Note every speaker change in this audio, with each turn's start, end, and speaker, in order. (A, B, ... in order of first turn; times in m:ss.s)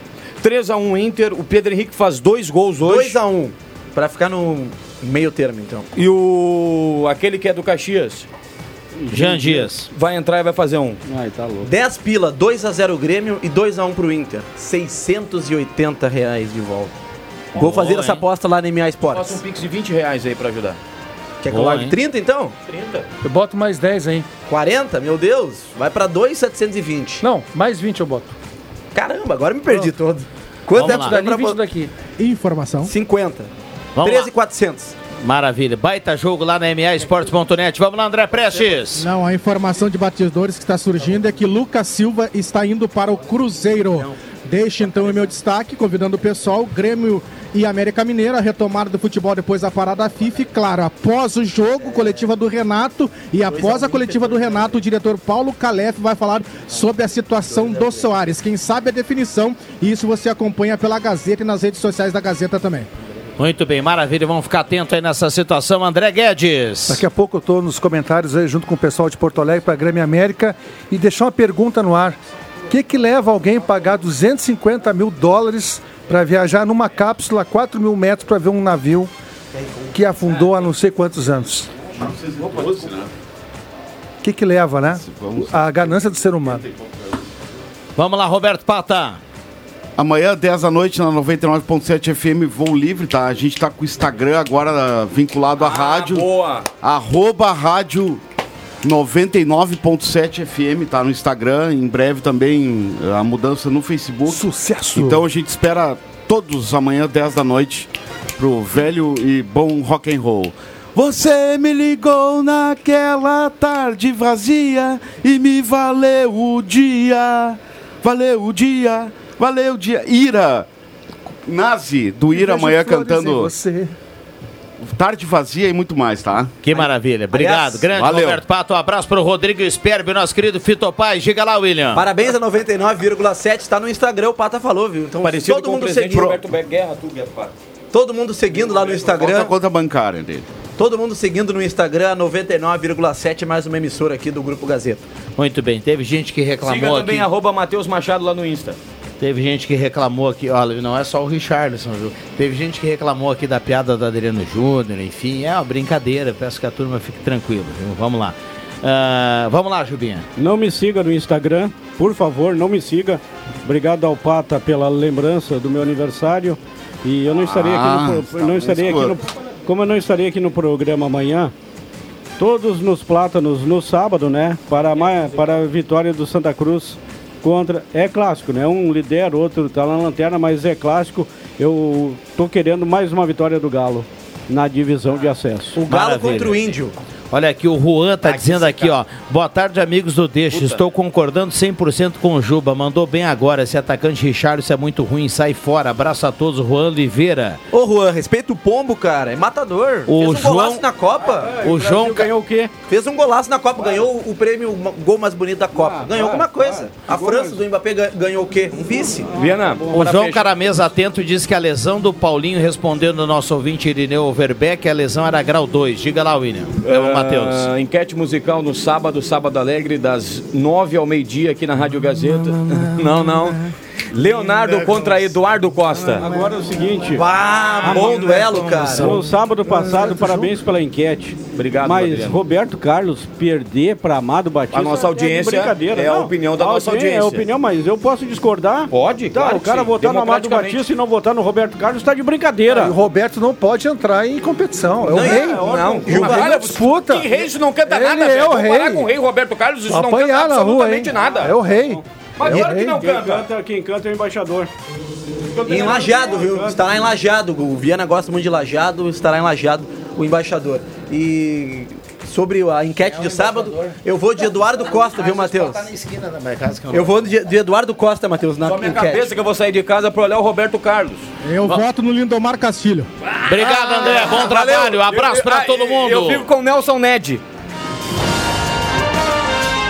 0:00.4-0:03.2 A
0:02.8-0:05.9 B
0:06.0-0:08.3 A
0:09.0-0:09.7 C
0:09.1-0:09.9 D
0:09.9-0:11.0 A
0:11.1-0:11.7 C
0:11.6-0:17.0 B
0:17.5-0:19.4 B
0:17.6-0:18.2 A
0:19.1-0:20.8 A
0:21.4-0:22.6 B
0:21.5-0:22.0 D
0:22.7-0:23.1 A
0:23.2-0:24.3 E
0:24.5-0:27.2 B
0:27.2-0:28.4 E
0:29.0-0:31.6 B
0:30.7-0:31.2 D
0:30.8-0:31.9 E
0:32.2-0:32.9 F
0:32.8-0:35.0 B
0:34.0-0:34.3 D
0:35.2-0:39.1 D
0:38.9-1:02.9 F
0:44.0-0:45.3 B
0:53.4-0:54.8 B
0:57.5-0:58.1 B
1:03.4-1:07.0 D
1:06.9-1:12.2 E
1:12.7-1:19.1 E
1:19.6-1:19.9 B
1:19.9-1:21.7 E
1:22.0-1:23.1 G
1:24.2-1:26.6 E
1:25.0-1:27.3 G
1:28.0-1:29.2 D
1:30.0-1:36.3 G
1:35.6-1:36.7 A
1:36.8-1:38.2 G
1:38.8-2:00.7 G
1:44.3-1:45.2 E
2:01.4-2:03.5 G
2:02.3-2:04.0 E
2:04.8-2:06.6 G
2:06.6-2:12.1 D
2:06.7-2:07.9 B
2:07.9-2:08.4 G
2:11.9-2:16.3 B
2:15.2-2:17.6 A
2:17.9-2:19.5 B
2:18.6-2:20.5 G
2:20.8-2:25.0 B
2:25.4-2:27.3 D
2:26.6-2:28.8 A
2:29.2-2:40.3 D
2:40.4-2:51.5 C
2:47.4-2:49.2 G
2:52.4-3:05.8 C
2:55.1-2:55.6 A
3:05.8-3:07.0 B
3:05.8-3:06.6 D
3:07.3-3:17.6 D
3:08.2-3:09.0 A
3:10.5-3:10.8 A
3:17.7-3:21.7 B
3:20.1-3:20.8 D
3:21.2-3:22.7 C
3:21.6-3:22.3 D
3:22.9-3:29.3 B
3:25.7-3:27.6 C
3:28.9-3:30.3 C
3:29.3-3:30.4 A
3:29.9-3:37.7 D
3:36.8-3:46.3 A
3:44.4-3:45.4 G
3:46.2-3:47.3 C
3:47.1-3:49.2 B
3:47.8-3:48.8 D
3:47.8-3:49.2 A
3:47.8-3:48.2 C
3:48.9-4:03.0 C
3:51.6-3:52.4 A
3:54.7-3:57.5 A
3:58.9-4:00.9 A
4:02.7-4:09.1 E
4:05.1-4:06.4 C
4:05.1-4:06.5 B
4:05.3-4:11.6 A
4:09.9-4:13.0 E
4:11.7-4:14.7 C
4:12.4-4:13.5 A
4:15.6-4:16.1 A
4:15.7-4:25.9 B
4:15.7-4:16.8 C
4:23.0-4:27.2 D
4:26.9-4:29.3 B
4:28.6-4:31.8 A
4:31.4-4:33.1 F
4:33.3-4:37.4 A
4:33.5-4:36.5 D
4:34.1-4:34.4 B